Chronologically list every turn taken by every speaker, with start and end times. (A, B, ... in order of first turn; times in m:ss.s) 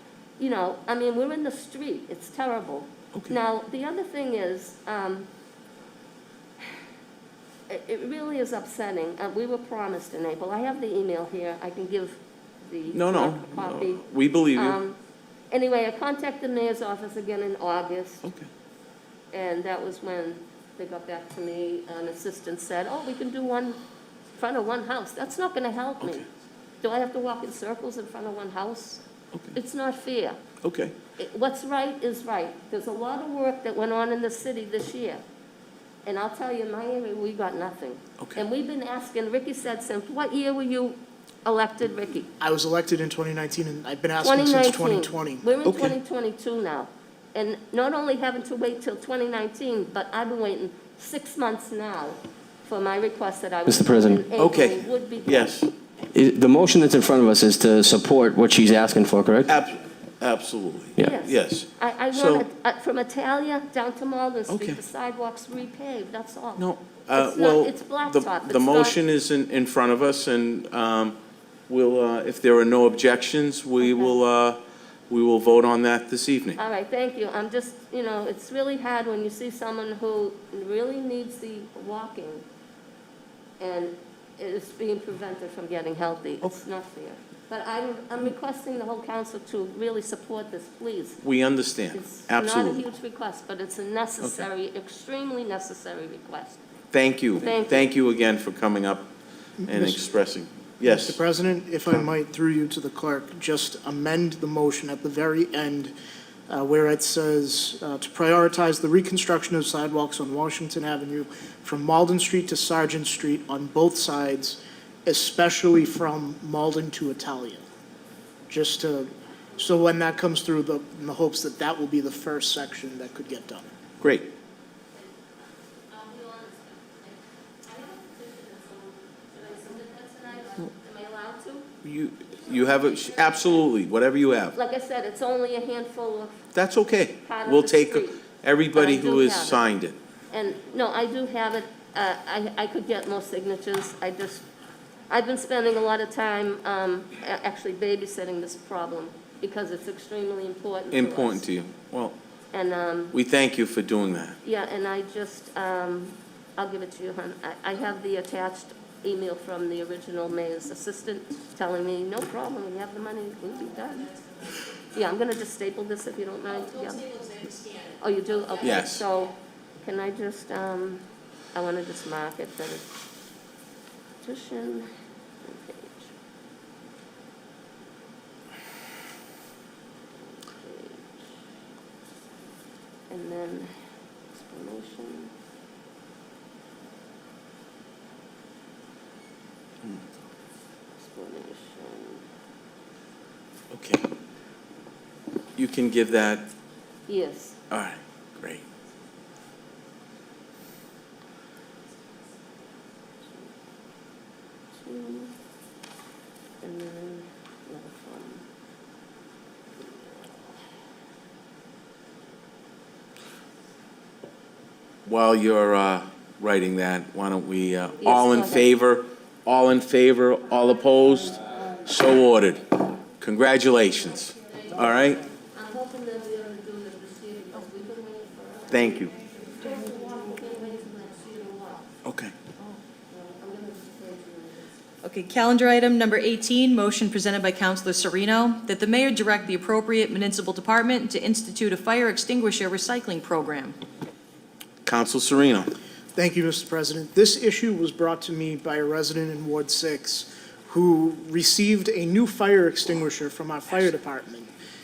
0:00.4-0:05.3 A
0:07.7-0:15.0 A
0:12.9-0:14.8 B
0:15.5-0:18.3 A
0:19.3-0:23.8 A
0:24.4-0:26.2 A
0:26.8-0:29.0 A
0:29.5-0:30.4 A
0:30.6-0:30.9 B
0:31.2-0:35.2 A
0:36.1-0:42.3 A
0:42.4-0:45.4 C
0:44.2-0:55.5 A
0:45.6-0:46.0 B
0:53.7-0:54.2 D
0:54.4-0:55.7 B
0:56.1-0:59.5 D
0:59.5-1:02.4 B
1:01.0-1:09.0 A
1:04.5-1:04.8 B
1:06.6-1:11.2 B
1:11.7-1:14.6 B
1:13.8-1:14.1 A
1:15.1-1:16.6 B
1:16.6-1:22.4 A
1:23.6-1:31.2 A
1:31.2-1:32.8 B
1:31.9-1:36.6 A
1:36.9-1:39.1 B
1:37.4-1:37.9 A
1:39.6-1:40.0 C
1:39.7-1:41.2 B
1:40.8-1:45.9 C
1:46.5-1:57.6 C
1:58.5-2:03.7 C
2:04.0-2:04.3 B
2:05.9-2:11.7 A
2:11.8-2:14.6 B
2:12.4-2:13.6 A
2:14.6-2:16.4 A
2:16.6-2:20.0 B
2:17.2-2:18.2 A
2:18.7-2:19.6 A
2:20.3-2:24.5 A
2:25.1-2:31.4 A
2:30.9-2:32.2 B
2:32.5-2:33.1 A
2:33.1-2:34.4 B
2:34.4-2:44.2 A
2:44.9-2:52.9 A
2:48.6-2:49.0 B
2:54.2-2:54.9 A
2:55.4-2:56.1 A
3:00.2-3:01.3 A
3:03.1-3:03.7 A
3:04.3-3:05.3 A
3:11.0-3:12.2 A
3:13.7-3:14.1 B
3:15.6-3:16.5 B
3:17.1-3:17.6 A
3:17.7-3:18.6 B
3:24.8-3:25.3 A
3:26.6-3:28.4 A
3:29.8-3:30.4 A
3:35.0-3:45.2 B
3:38.0-3:38.7 A
3:45.5-3:51.9 A
3:48.7-3:49.1 B
3:52.0-3:52.3 B
3:53.1-3:54.7 A
3:55.0-4:03.8 E
4:04.8-4:05.7 B
4:06.2-4:14.5 C